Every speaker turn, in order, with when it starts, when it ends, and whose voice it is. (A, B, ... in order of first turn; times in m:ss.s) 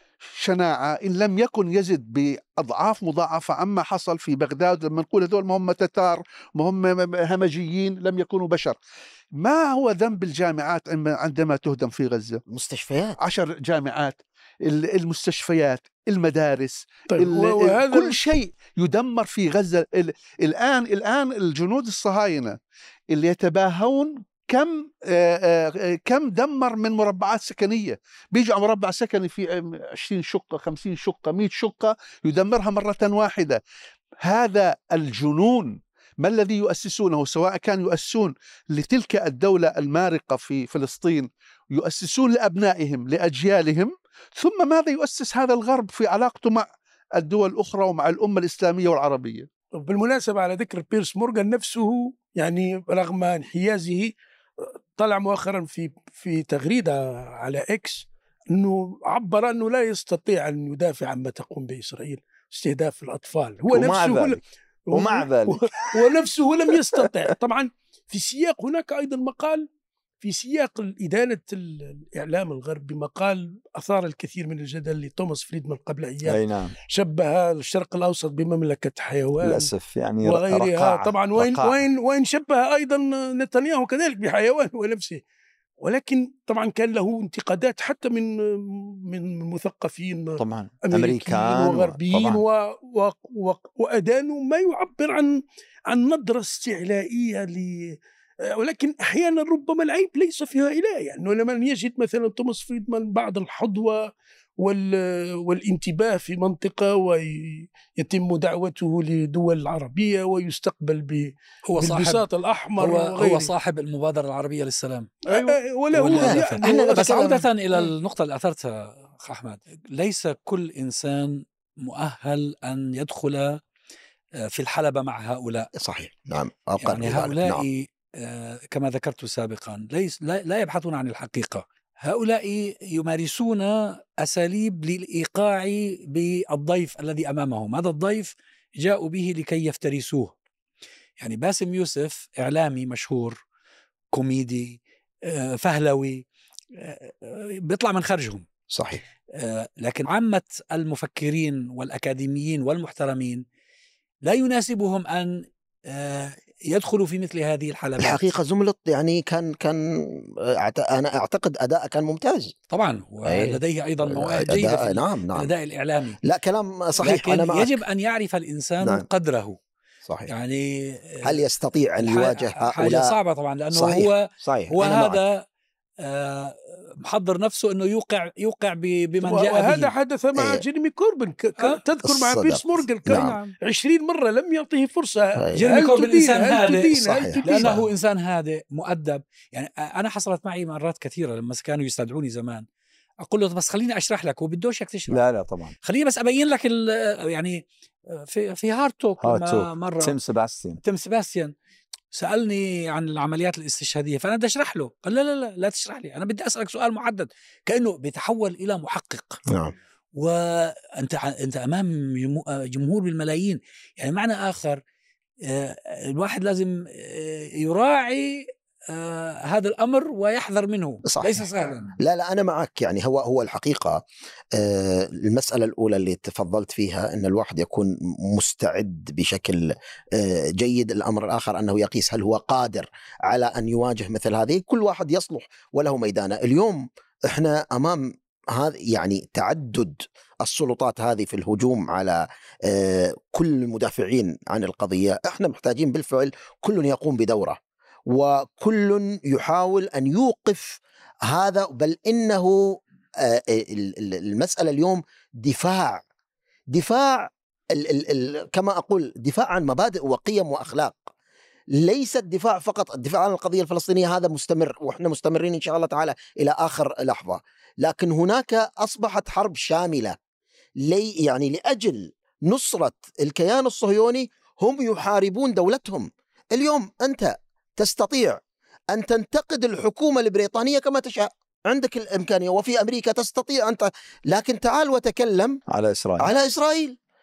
0:00.4-0:08.8 A
0:09.4-0:12.4 A
0:12.5-0:13.2 B
0:13.2-0:22.6 A
0:17.1-0:18.2 C
0:23.1-0:33.6 A
0:34.2-0:46.6 A
0:47.2-0:49.5 A
0:49.8-1:09.7 C
1:03.7-1:06.1 D
1:10.2-1:19.7 C
1:16.2-1:16.7 D
1:19.4-1:21.8 D
1:20.2-1:25.2 C
1:25.8-1:38.0 C
1:30.4-1:32.4 D
1:38.5-1:53.5 C
1:51.7-1:52.2 E
1:52.8-2:03.6 E
1:55.3-1:57.5 C
1:56.1-1:57.4 B
2:04.4-2:05.7 E
2:05.8-2:07.6 B
2:06.8-2:20.3 E
2:21.2-2:23.4 E
2:24.1-2:26.2 E
2:26.8-2:28.4 E
2:28.7-2:29.0 B
2:29.3-2:33.4 E
2:34.2-2:38.2 E
2:38.0-2:42.6 B
2:42.7-2:46.2 E
2:43.2-2:45.5 B
2:46.2-2:47.8 B
2:47.0-2:49.6 E
2:48.8-2:49.0 B
2:50.3-2:51.4 E
2:51.2-2:53.1 B
2:52.0-2:55.4 E
2:53.7-2:55.2 B
2:56.0-2:59.9 E
2:59.2-3:07.8 C
3:00.4-3:00.6 B
3:02.1-3:03.3 B
3:03.1-3:03.5 E
3:05.5-3:12.6 E
3:07.0-3:07.8 B
3:13.2-3:15.2 E
3:15.1-3:15.7 D
3:15.8-3:20.1 E
3:19.2-3:20.8 D
3:20.8-3:21.5 E
3:22.1-3:29.4 E
3:30.1-3:34.8 E
3:35.4-3:42.0 E
3:41.1-3:41.4 B
3:42.0-3:44.0 B
3:44.5-4:16.0 B
4:16.7-4:21.1 B
4:21.7-4:30.2 B
4:30.8-4:38.4 B
4:38.9-4:45.6 B
4:45.7-4:46.3 D
4:46.2-4:47.0 B